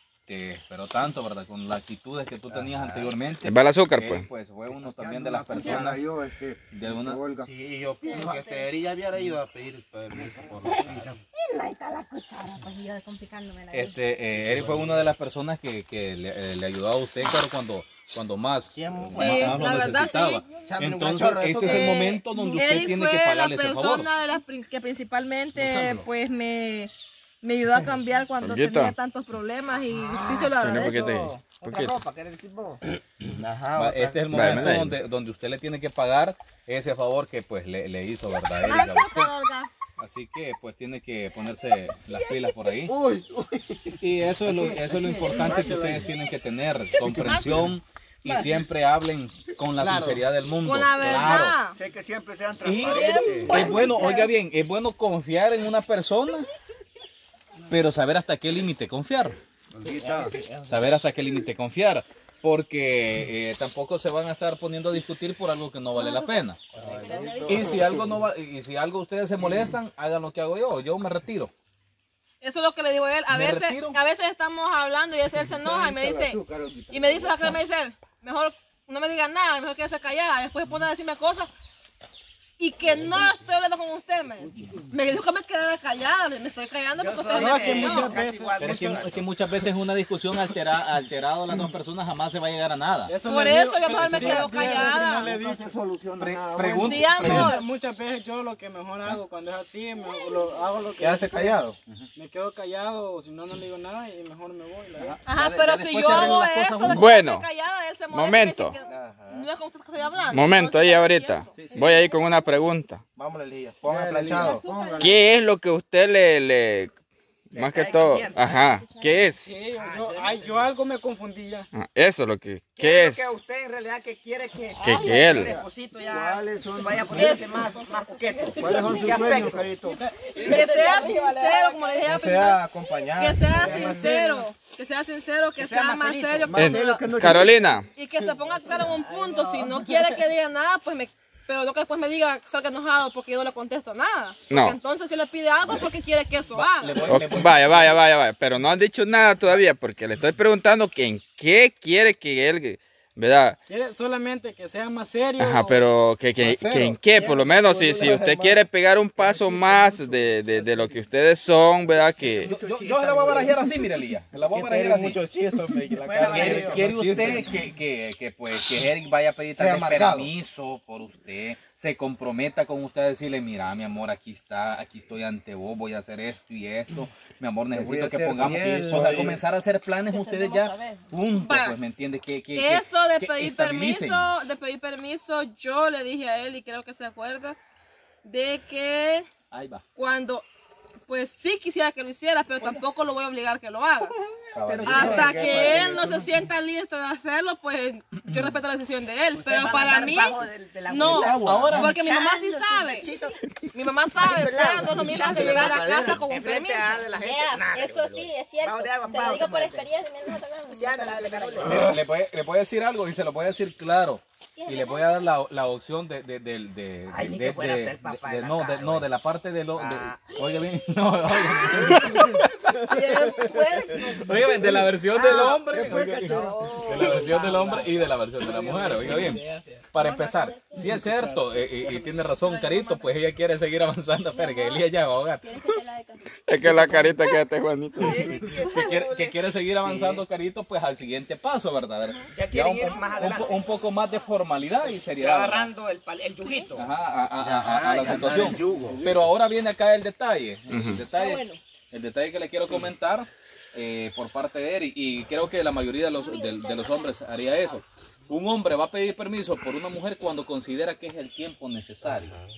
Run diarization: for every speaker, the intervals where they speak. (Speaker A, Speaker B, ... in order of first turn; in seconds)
Speaker A: 0.3-6.1, 6.7-7.2, 13.7-24.1, 33.7-39.3, 40.0-42.9, 44.0-51.6, 52.6-56.5, 57.7-59.4, 60.6-66.6, 67.5-71.5, 73.3-74.0, 88.6-93.2, 96.2-97.6, 105.0-107.1, 111.5-112.1, 146.6-148.0, 162.4-165.2, 166.2-184.3, 189.5-189.8, 194.6-195.9, 201.1-201.9, 211.6-235.4, 238.5-245.7, 246.7-262.4
Speaker B: 2.5-3.2, 7.4-11.0, 14.3-15.1, 18.7-19.7, 20.7-22.2, 25.6-26.0, 33.4-34.8, 42.9-43.9, 47.0-47.4, 59.9-61.0, 66.7-68.1, 101.0-101.8, 108.8-109.5, 113.2-114.6, 132.0-133.5, 156.4-158.6, 159.2-160.8, 163.2-163.5, 164.4-167.6, 169.5-170.3, 178.4-179.4, 194.5-196.3, 201.1-201.7, 222.8-224.7, 228.7-229.2, 247.3-249.1
Speaker C: 3.4-4.2, 28.4-28.9, 30.5-31.9, 34.3-35.0, 106.9-107.5, 108.1-108.7, 110.3-113.0, 115.0-116.9, 117.5-119.5, 121.7-123.2, 124.8-125.5, 136.6-137.9, 144.5-144.8, 147.1-153.6, 155.4-162.5, 236.4-238.2, 250.7-251.0
Speaker D: 4.7-7.5, 10.4-11.2, 44.4-46.1, 51.6-53.8, 59.7-60.4, 66.8-67.6, 75.5-77.6, 84.4-84.9, 94.1-97.3, 113.8-115.3, 125.3-127.7, 128.5-130.0, 133.6-134.1, 136.4-137.8, 160.4-161.0, 162.0-163.7, 166.0-167.3, 177.7-179.4, 194.7-196.1, 221.9-222.3, 223.4-224.8, 225.4-227.8
Speaker E: 5.6-5.8, 8.0-8.7, 11.3-14.2, 20.2-20.6, 22.3-22.8, 42.1-42.8, 52.8-54.4, 65.9-67.9, 111.6-112.6, 114.4-115.0, 118.8-119.3, 124.8-125.5, 127.6-129.4, 130.1-132.1, 180.0-181.1, 202.8-203.4, 204.2-206.1, 207.1-211.9, 214.6-215.3, 220.3-221.8, 229.9-231.0, 231.8-233.1, 234.3-234.9, 235.4-237.4, 238.1-239.0, 243.3-244.2, 246.4-246.7, 251.1-251.6, 256.1-257.8
Speaker F: 19.1-20.4, 21.6-26.9, 27.4-31.1, 38.6-39.7, 47.1-47.6, 50.6-51.8, 72.4-81.5, 82.6-88.2, 93.2-95.3, 96.8-97.7, 105.2-111.5, 127.1-127.7, 130.4-137.0, 137.9-147.1, 181.4-181.8, 182.5-187.6, 188.2-189.3, 189.9-190.4, 191.1-194.1, 194.8-203.1, 203.7-207.0
Speaker G: 29.9-32.8, 87.0-89.2, 117.5-118.7, 119.7-120.7, 122.8-129.7, 135.6-136.6, 166.2-166.7, 199.3-203.3, 204.2-209.9, 210.7-212.0, 217.1-219.1, 219.7-220.3, 225.1-228.1, 238.0-240.2, 242.3-243.7, 245.2-246.9
Speaker H: 87.3-89.0, 93.1-95.8, 97.2-101.6, 102.1-105.2, 119.4-121.7, 130.4-130.7, 133.4-134.5, 153.7-155.8, 228.5-229.8, 230.8-231.5, 248.3-249.2